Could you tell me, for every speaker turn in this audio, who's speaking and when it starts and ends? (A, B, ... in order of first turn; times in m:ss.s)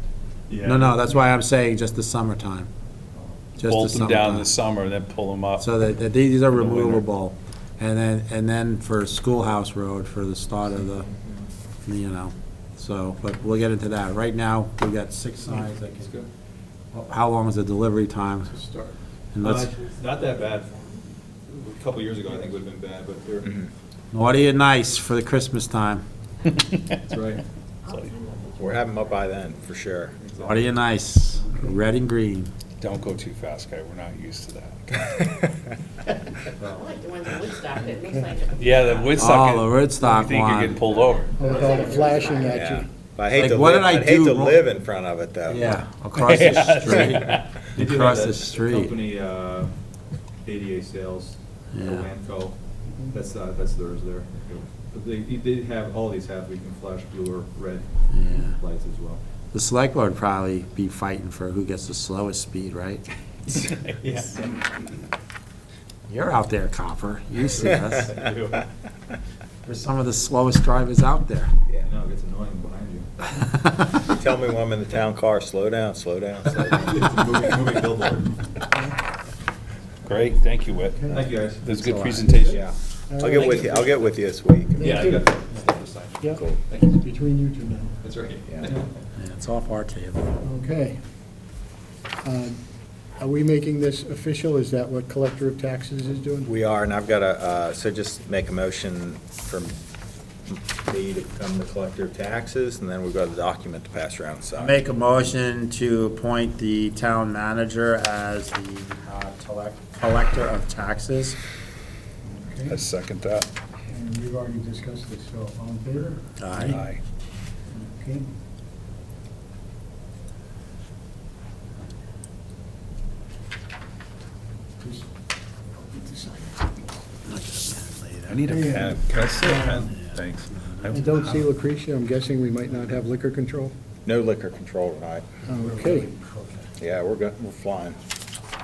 0:00.5-0:01.2 A
0:00.6-0:02.7 B
0:03.6-0:04.5 B
0:03.7-0:05.6 C
0:05.6-0:11.1 B
0:11.0-0:11.4 A
0:11.8-0:16.2 B
0:15.5-0:16.3 A
0:16.9-0:18.5 B
0:18.4-0:23.6 A
0:19.3-0:19.7 B
0:24.1-0:26.0 B
0:26.6-0:27.0 C
0:27.1-0:27.4 A
0:27.9-0:28.2 C
0:27.9-0:28.9 D
0:28.6-0:30.2 E
0:30.2-0:30.6 A
0:30.4-0:32.5 B
0:32.8-0:35.1 C
0:36.6-0:39.3 D
0:38.6-0:41.4 C
0:39.1-0:40.8 B
0:40.8-0:42.6 D
0:41.4-0:42.9 F
0:41.4-0:41.8 A
0:42.5-0:45.8 E
0:43.3-0:44.6 B
0:45.5-0:49.0 B
0:46.2-0:47.4 C
0:47.6-0:49.7 A
0:50.4-0:52.6 A
0:51.7-0:52.1 B
0:53.1-0:59.2 A
0:58.1-0:58.6 B
0:59.5-1:03.1 B
1:03.6-1:04.0 C
1:04.0-1:04.6 A
1:06.1-1:08.2 B
1:07.4-1:08.6 A
1:09.6-1:11.5 B
1:11.8-1:13.5 A
1:14.0-1:17.1 E
1:16.6-1:18.4 A
1:18.7-1:19.0 F
1:20.1-1:21.0 C
1:20.9-1:21.2 F
1:21.1-1:21.7 A
1:21.7-1:22.6 C
1:21.7-1:22.3 B
1:22.5-1:25.1 E
1:23.1-1:23.7 F
1:23.4-1:24.1 A
1:24.7-1:25.4 F
1:24.8-1:26.9 A
1:26.2-1:28.0 F
1:28.0-1:28.9 A
1:29.2-1:30.3 B
1:30.4-1:31.0 F
1:32.2-1:32.6 F
1:33.2-1:36.5 F
1:36.4-1:39.8 E
1:40.5-1:44.8 E
1:44.6-1:51.4 B
1:52.4-1:52.8 F
1:52.7-1:53.5 C
1:53.9-1:56.8 F
1:56.4-1:56.8 B
1:56.7-1:57.0 C
1:57.7-1:58.3 F
2:04.8-2:05.1 F
2:05.7-2:06.7 F
2:07.3-2:08.5 B
2:08.3-2:11.4 C
2:08.5-2:09.9 F
2:09.9-2:10.8 B
2:10.9-2:13.7 F
2:14.1-2:15.3 E
2:15.5-2:16.1 F
2:15.5-2:16.7 B
2:16.8-2:18.0 E